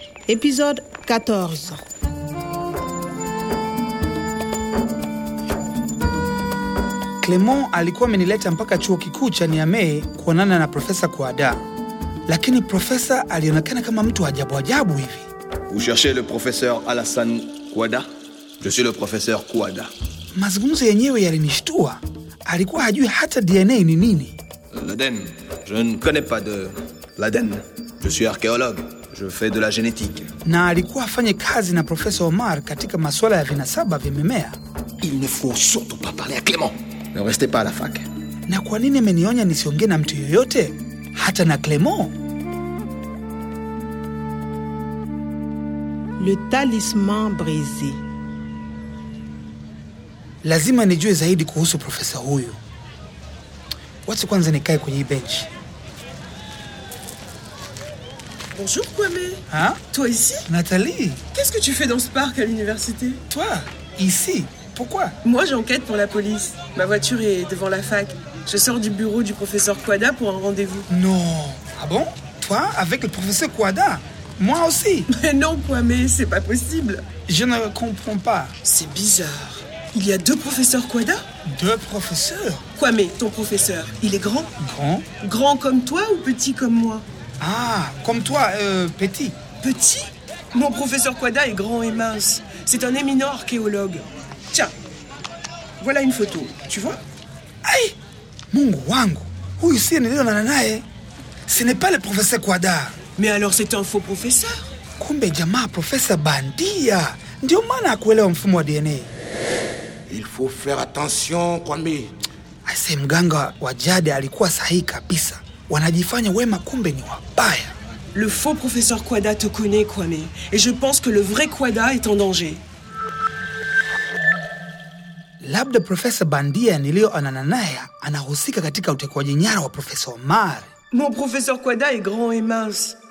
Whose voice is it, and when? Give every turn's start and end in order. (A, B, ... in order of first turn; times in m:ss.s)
0:00.3-0:01.8 A
0:07.2-0:11.6 B
0:12.3-0:15.3 B
0:15.7-0:18.0 C
0:18.6-0:19.9 C
0:20.3-0:24.4 B
0:24.7-0:30.3 C
0:30.4-0:34.6 B
0:35.0-0:38.1 C
0:38.5-0:42.1 B
0:46.2-0:48.0 A
0:50.4-0:52.6 B
0:54.0-0:55.5 B
0:58.5-1:00.4 D
0:59.5-0:59.8 B
1:00.5-1:01.2 B
1:01.3-1:03.2 D
1:03.3-1:05.2 B
1:05.2-1:10.9 D
1:10.9-1:15.1 B
1:15.1-1:17.0 D
1:17.3-1:18.5 B
1:18.6-1:21.2 D
1:21.4-1:22.6 B
1:22.8-1:24.5 D
1:24.6-1:25.1 B
1:25.2-1:27.0 D
1:27.4-1:29.4 B
1:29.6-1:34.7 D
1:35.8-1:37.0 D
1:37.6-1:37.9 B
1:38.5-1:40.8 B
1:41.5-1:43.0 B
1:43.2-1:44.7 D
1:45.0-1:49.1 B
1:50.1-1:52.1 E
1:52.6-1:57.7 B
1:58.1-2:02.6 D
2:05.4-2:10.7 B
2:10.9-2:13.0 D